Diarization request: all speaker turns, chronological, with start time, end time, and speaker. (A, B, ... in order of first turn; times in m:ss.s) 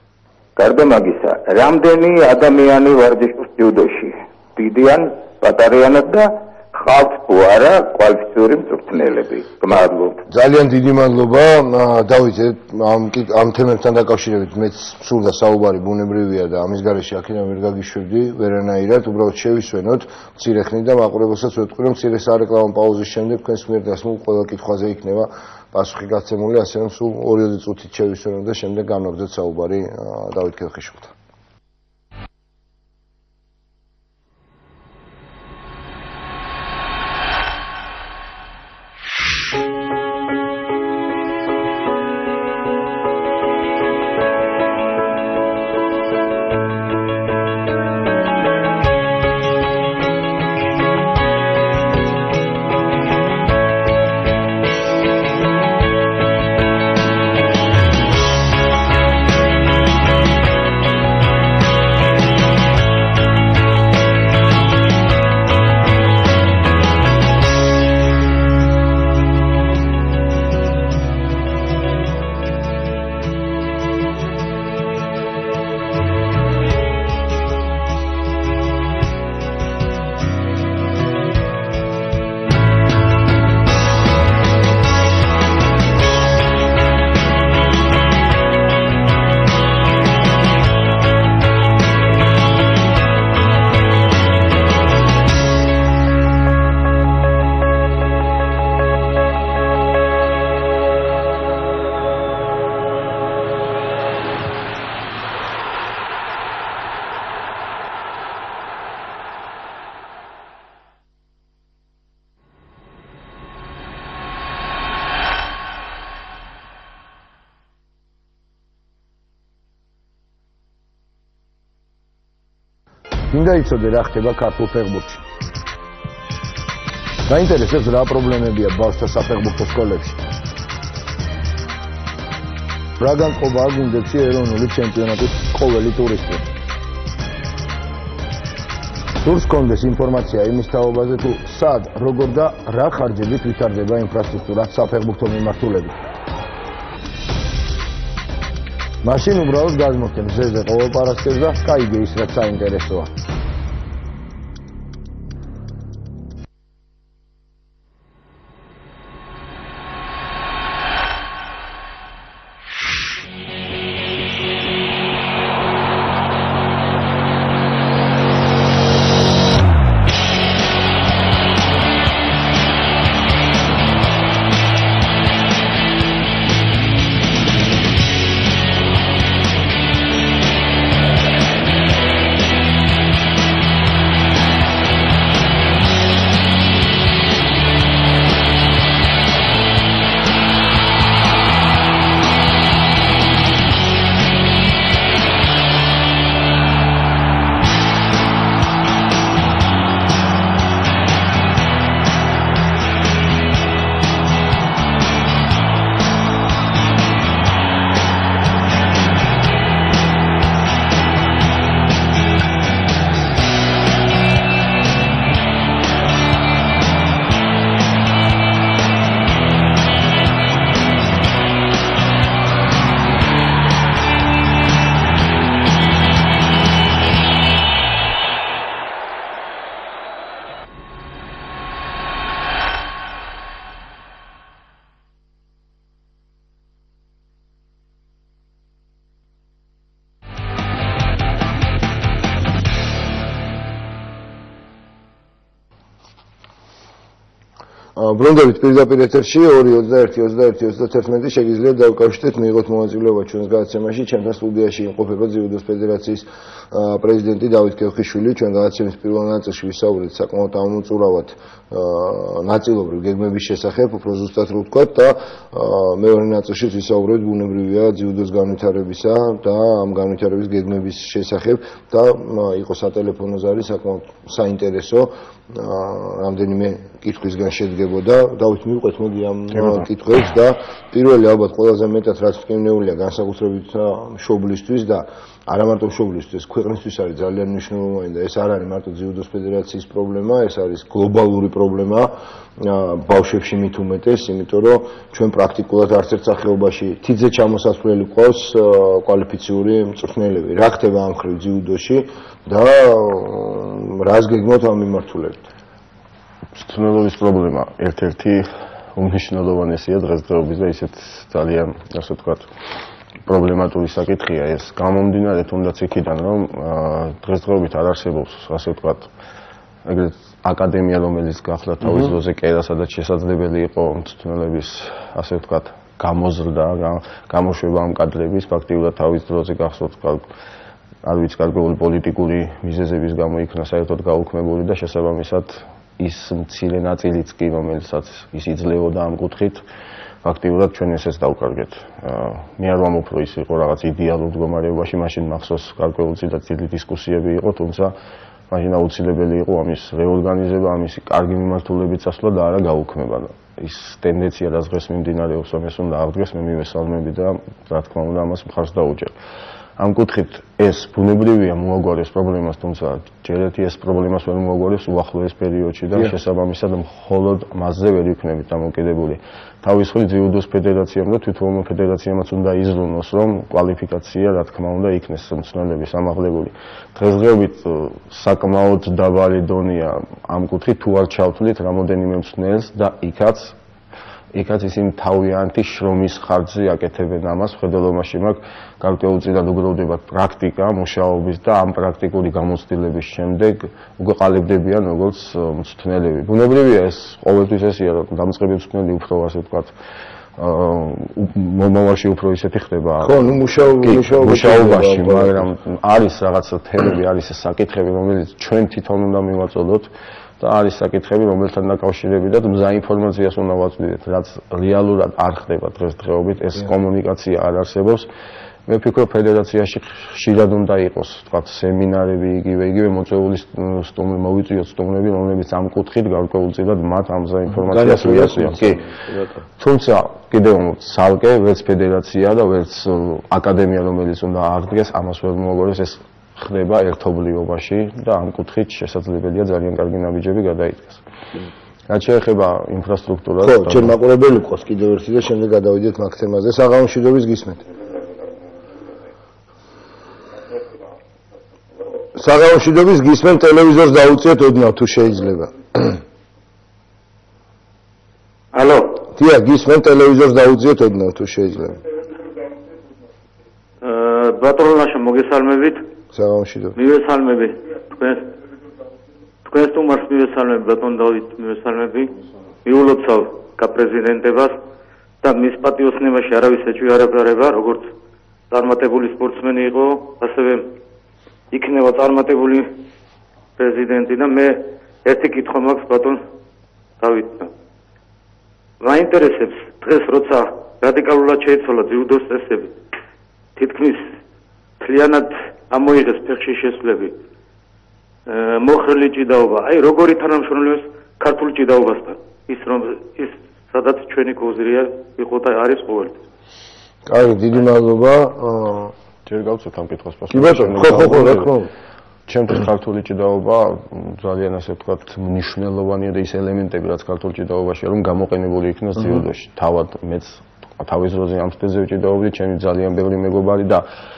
0:00.6-0:10.2 A
0:10.3-0:31.1 B
2:03.3-2:05.2 B
2:07.2-2:10.2 B
2:13.0-2:16.5 B
2:19.2-2:26.0 B
2:29.0-2:33.1 B
4:08.0-5:05.4 B
5:06.6-5:12.5 C
5:13.2-5:19.1 C
5:19.8-5:30.2 C
5:21.8-5:22.1 B
5:31.0-5:39.6 C
5:40.2-5:47.9 C
5:48.5-5:59.1 C
5:59.8-6:23.6 C
6:24.3-6:39.7 C
6:40.4-6:49.9 C
6:43.0-6:45.5 B
6:50.4-6:58.1 C
6:58.7-7:08.8 C
7:07.5-7:09.4 B
7:09.6-7:21.0 C
7:21.9-7:23.9 C
7:23.4-7:27.6 B
7:32.2-7:36.0 B
7:38.5-7:39.0 D
7:39.1-7:41.8 B
7:43.8-7:45.9 D
7:46.1-7:46.8 B
7:46.8-7:48.3 D
7:49.4-7:52.1 D
7:52.6-7:54.6 D
7:55.2-7:57.9 D
7:58.5-8:00.7 D
8:01.5-8:02.7 D
8:03.6-8:06.2 D
8:07.0-8:07.5 D
8:08.8-8:12.7 D
8:13.6-8:14.1 D
8:14.8-8:17.1 D
8:18.3-8:26.2 D
8:27.0-8:28.9 B
8:29.2-8:31.5 C
8:30.3-8:31.7 B
8:32.3-8:43.8 C